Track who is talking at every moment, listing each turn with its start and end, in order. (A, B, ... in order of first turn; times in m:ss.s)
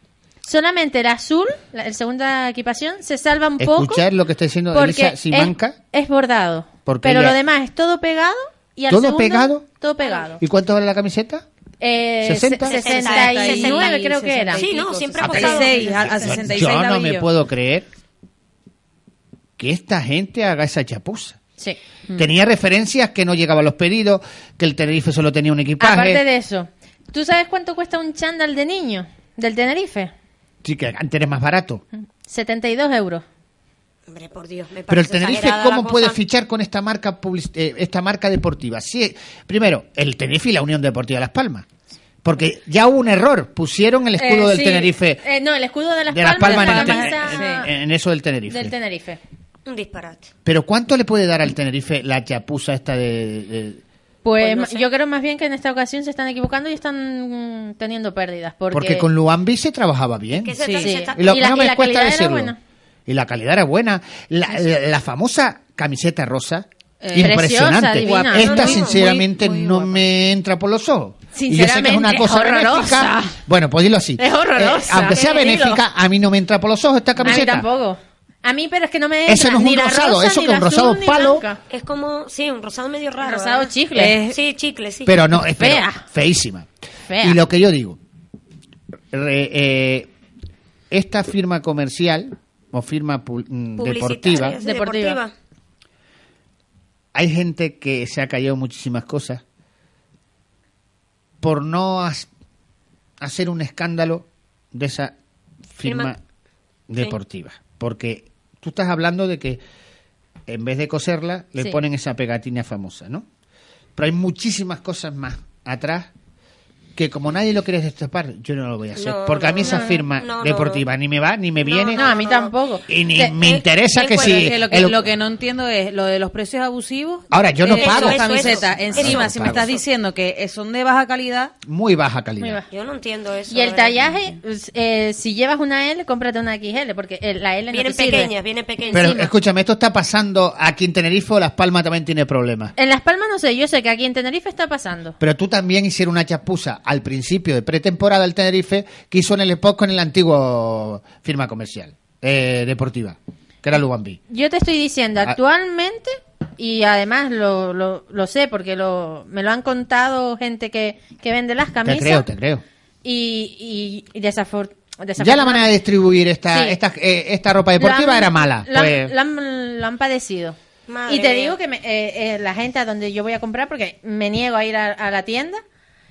0:00.4-0:04.0 A
0:03.6-0:05.8 B
0:04.7-0:10.4 A
0:06.9-0:07.4 B
0:08.9-0:09.6 B
0:10.4-0:11.4 B
0:11.8-0:14.7 A
0:12.2-0:12.8 B
0:12.6-0:14.0 C
0:12.8-0:17.3 D
0:14.5-0:16.3 C
0:15.2-0:16.0 A
0:16.2-0:17.9 B
0:19.6-0:21.4 B
0:22.2-0:26.2 B
0:25.8-0:30.1 A
0:30.6-0:31.8 B
0:32.2-0:33.2 A
0:34.1-0:36.2 C
0:34.9-0:41.6 B
0:42.2-0:45.2 B
0:44.2-0:47.7 A
0:46.1-0:48.7 B
0:46.4-0:47.6 D
0:48.5-0:49.2 A
0:49.6-0:50.3 C
0:50.4-0:53.8 B
0:54.2-0:59.1 A
0:54.4-0:54.9 C
0:58.7-1:00.6 B
1:00.3-1:01.3 C
1:00.6-1:00.9 D
1:00.8-1:02.6 A
1:01.2-1:02.5 B
1:03.1-1:17.6 B
1:07.0-1:07.3 D
1:07.1-1:08.7 A
1:08.4-1:10.0 D
1:08.4-1:08.9 C
1:11.3-1:13.3 A
1:14.2-1:15.8 A
1:17.2-1:21.6 A
1:19.3-1:21.4 B
1:21.7-1:23.7 C
1:23.2-1:24.2 A
1:23.9-1:24.4 D
1:24.3-1:25.1 C
1:25.0-1:26.7 B
1:25.4-1:26.0 A
1:27.1-1:27.4 A
1:27.2-1:28.0 B
1:29.1-1:30.1 B
1:30.9-1:34.6 B
1:33.8-1:35.3 C
1:34.6-1:35.2 A
1:37.1-1:39.4 B
1:41.4-1:42.3 B
1:43.2-1:45.1 B
1:45.8-1:46.2 B
1:45.8-1:46.1 C
1:46.9-1:49.6 B
1:50.5-1:53.2 B
1:54.0-1:56.1 B
1:57.0-2:02.0 B
1:59.0-2:00.8 C
1:59.6-2:00.0 A
2:01.6-2:02.5 C
2:01.9-2:03.4 A
2:02.9-2:05.1 B
2:03.4-2:04.5 C
2:04.1-2:11.5 D
2:07.3-2:09.7 B
2:07.7-2:09.8 C
2:11.6-2:12.6 B
2:12.4-2:12.7 A
2:12.7-2:14.1 C
2:13.5-2:18.3 A
2:17.7-2:19.2 C
2:18.9-2:19.3 A
2:18.9-2:22.7 B
2:22.8-2:25.2 A
2:25.2-2:34.2 B
2:34.3-2:42.3 A
2:41.8-2:42.6 B
2:43.0-2:45.7 A
2:45.2-2:49.1 B
2:46.5-2:46.8 A
2:47.8-2:50.6 A
2:50.9-2:51.6 C
2:51.1-2:55.6 A